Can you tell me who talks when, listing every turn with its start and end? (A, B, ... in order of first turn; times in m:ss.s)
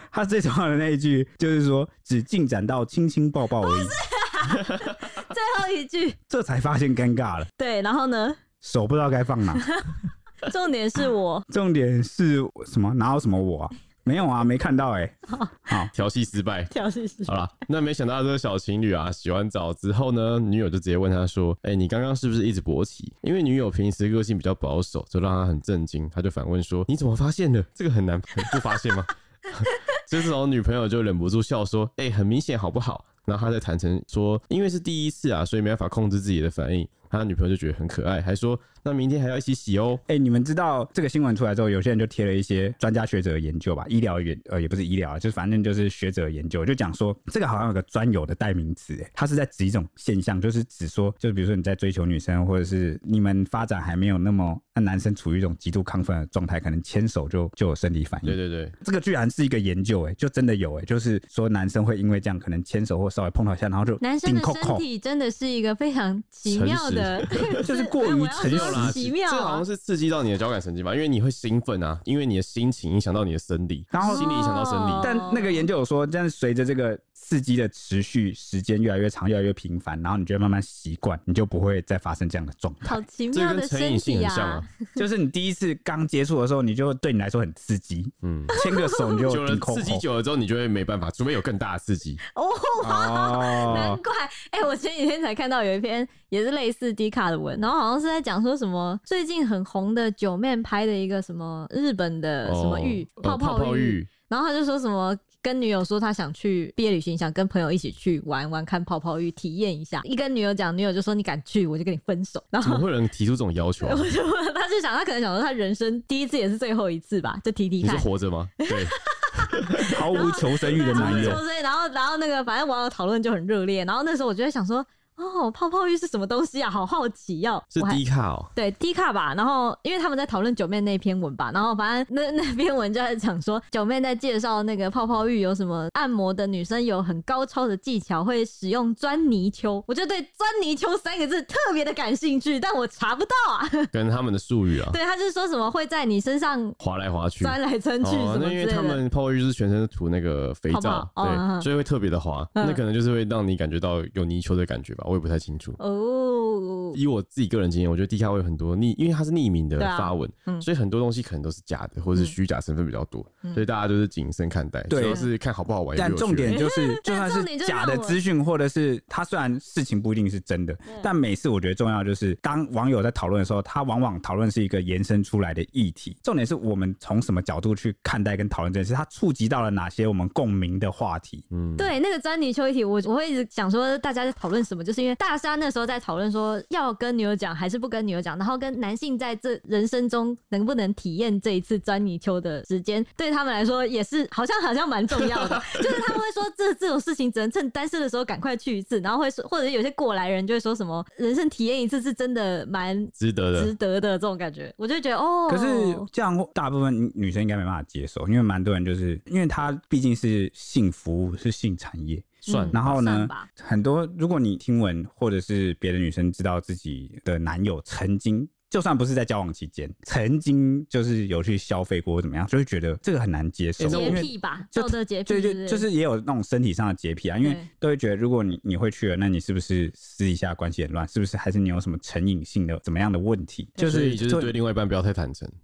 0:00.1-0:04.0 A
0:03.6-0:06.2 B
0:06.3-0:07.5 A
0:07.6-0:08.4 B
0:08.6-0:09.7 A
0:09.6-0:11.5 B
0:11.5-0:15.9 A
0:15.3-0:15.5 B
0:15.9-0:16.7 C
0:16.7-0:17.4 B
0:17.3-0:40.0 C
0:40.1-1:04.8 A
0:58.2-0:58.7 C
1:04.0-1:09.6 B
1:06.5-1:07.6 C
1:07.6-1:09.0 A
1:08.4-1:15.1 C
1:13.9-1:14.3 A
1:14.0-1:15.6 B
1:15.0-1:23.0 A
1:22.8-1:24.6 B
1:23.3-1:24.6 C
1:25.0-1:30.0 A
1:28.2-1:28.5 C
1:28.5-1:29.3 B
1:29.3-1:32.2 C
1:32.3-1:52.9 B
1:32.8-1:34.0 A
1:33.7-1:33.9 C
1:42.4-1:44.1 C
1:52.6-1:54.1 C
1:53.8-1:58.1 B
1:57.8-1:59.7 C
1:58.6-2:08.0 B
1:59.9-2:01.4 A
2:00.9-2:01.4 C
2:07.7-2:08.5 C
2:08.6-2:23.9 B
2:23.9-2:25.0 C
2:24.9-2:26.8 B
2:26.8-2:35.8 C
2:27.4-2:29.0 B
2:30.7-2:31.7 B
2:35.8-2:37.0 B
2:36.9-2:46.6 C
2:39.8-2:40.7 B
2:44.9-2:45.3 A
2:46.0-3:01.5 A
2:46.5-2:48.2 B
3:01.5-3:01.9 C
3:01.8-3:26.1 B
3:15.3-3:15.7 C
3:23.2-3:23.7 C
3:25.5-3:54.6 A
3:32.5-3:33.5 B
3:32.5-3:32.8 C
3:43.8-3:44.3 C
3:43.9-3:45.9 B
3:47.4-3:47.7 B
3:53.8-3:55.5 C